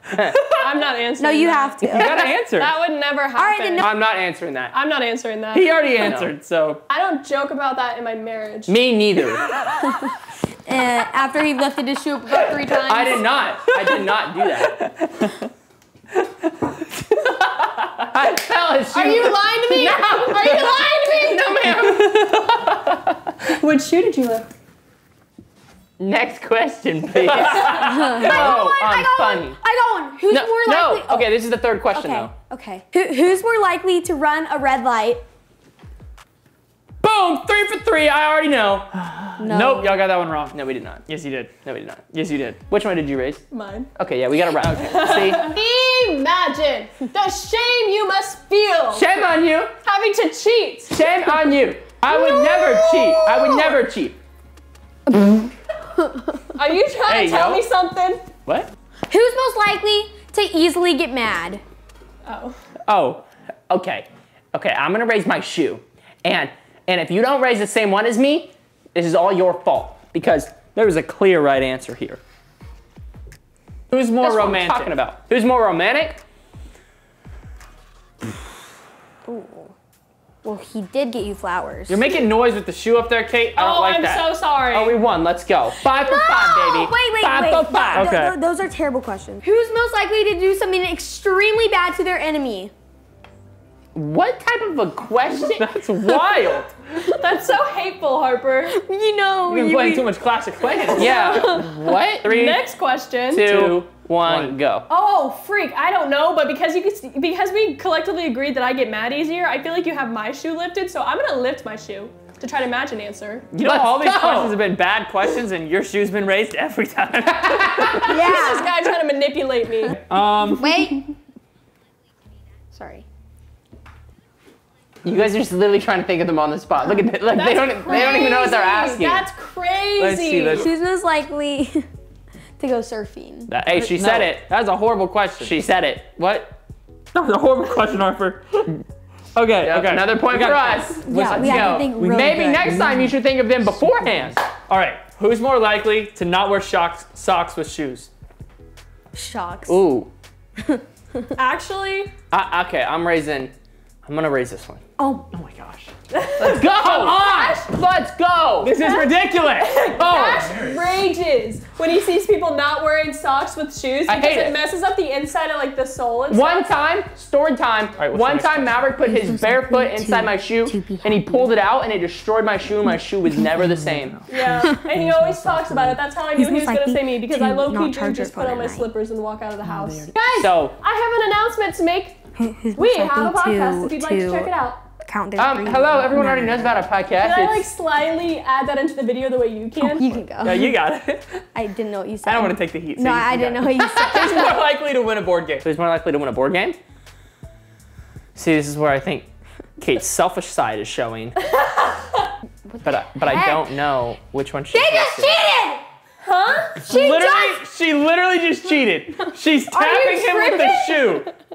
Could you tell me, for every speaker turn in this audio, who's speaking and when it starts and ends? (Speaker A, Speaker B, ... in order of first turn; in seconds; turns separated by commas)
Speaker A: 0.1-0.4, Speaker B: 0.6-4.0, Speaker C: 1.2-2.2, Speaker D: 1.8-2.7, Speaker C: 3.4-3.9, Speaker A: 3.8-4.7, Speaker B: 4.7-5.9, Speaker D: 5.5-6.8, Speaker A: 5.8-6.3, Speaker B: 6.9-8.8, Speaker A: 8.7-9.4, Speaker C: 10.7-13.2, Speaker A: 12.9-14.8, Speaker D: 13.7-14.2, Speaker D: 14.8-15.5, Speaker D: 17.4-17.9, Speaker A: 18.1-23.1, Speaker B: 18.9-21.5, Speaker B: 23.5-24.5, Speaker A: 26.0-29.6, Speaker D: 27.4-28.6, Speaker C: 27.6-35.2, Speaker A: 30.3-32.3, Speaker A: 37.0-38.9, Speaker D: 38.9-40.6, Speaker C: 39.4-40.1, Speaker A: 40.5-41.0, Speaker D: 41.1-41.5, Speaker A: 41.6-43.4, Speaker D: 42.1-42.6, Speaker B: 43.5-43.9, Speaker A: 43.9-45.6, Speaker B: 44.8-51.1, Speaker A: 48.9-49.7, Speaker A: 50.9-54.2, Speaker B: 52.1-53.7, Speaker C: 56.0-56.2, Speaker B: 56.5-58.2, Speaker A: 57.1-57.6, Speaker C: 59.1-61.6, Speaker B: 62.2-62.6, Speaker A: 62.9-72.2, Speaker D: 73.9-74.9, Speaker A: 74.2-76.2, Speaker C: 79.2-79.7, Speaker C: 80.4-82.1, Speaker D: 81.9-84.3, Speaker B: 83.5-85.0, Speaker A: 84.7-88.1, Speaker C: 85.8-92.7, Speaker D: 87.9-88.4, Speaker A: 93.9-95.7, Speaker D: 95.6-96.8, Speaker B: 97.0-98.8, Speaker C: 98.7-100.1, Speaker D: 99.5-101.7, Speaker A: 100.9-102.6, Speaker B: 101.0-103.5, Speaker C: 101.1-101.4, Speaker A: 103.3-104.9, Speaker D: 103.4-104.5, Speaker B: 104.9-113.5, Speaker D: 113.5-118.4, Speaker A: 113.6-114.6, Speaker A: 117.4-118.4, Speaker C: 118.1-118.7, Speaker B: 118.1-120.0, Speaker D: 120.1-120.8, Speaker C: 120.6-121.1, Speaker C: 122.7-123.0, Speaker A: 125.0-129.3, Speaker B: 127.3-130.7, Speaker D: 130.0-130.7, Speaker C: 130.5-131.9, Speaker C: 132.6-133.5, Speaker A: 133.5-134.4, Speaker D: 133.7-135.5, Speaker A: 135.4-136.6, Speaker D: 137.1-138.8, Speaker D: 139.3-143.1, Speaker A: 139.6-144.4, Speaker C: 141.0-142.7, Speaker D: 144.6-148.1, Speaker C: 149.1-149.8, Speaker A: 149.7-150.1, Speaker C: 150.6-151.2, Speaker B: 151.3-152.1, Speaker A: 152.3-153.5, Speaker A: 154.1-154.8, Speaker C: 155.0-155.3, Speaker D: 155.3-155.9, Speaker B: 156.2-157.7, Speaker A: 156.4-158.7, Speaker D: 156.4-157.6, Speaker D: 158.6-160.9, Speaker B: 158.8-166.8, Speaker A: 159.9-160.4, Speaker A: 164.1-164.6, Speaker A: 166.3-174.2, Speaker D: 168.0-168.9, Speaker C: 169.0-171.5, Speaker D: 173.6-174.2, Speaker B: 174.3-182.2, Speaker D: 174.9-175.9, Speaker C: 176.4-178.9, Speaker D: 179.7-180.1, Speaker A: 180.3-180.8, Speaker C: 182.4-186.8, Speaker B: 182.8-184.8, Speaker A: 185.4-187.7, Speaker B: 187.2-190.2, Speaker C: 189.8-190.8, Speaker D: 190.4-191.4, Speaker C: 191.6-194.6, Speaker D: 192.2-195.6, Speaker A: 195.6-196.8, Speaker A: 198.3-201.4, Speaker B: 201.6-202.2, Speaker C: 202.7-203.7, Speaker A: 202.8-205.4, Speaker C: 204.7-205.8, Speaker B: 206.2-207.3, Speaker D: 206.9-211.3, Speaker C: 206.9-207.6, Speaker B: 209.7-211.2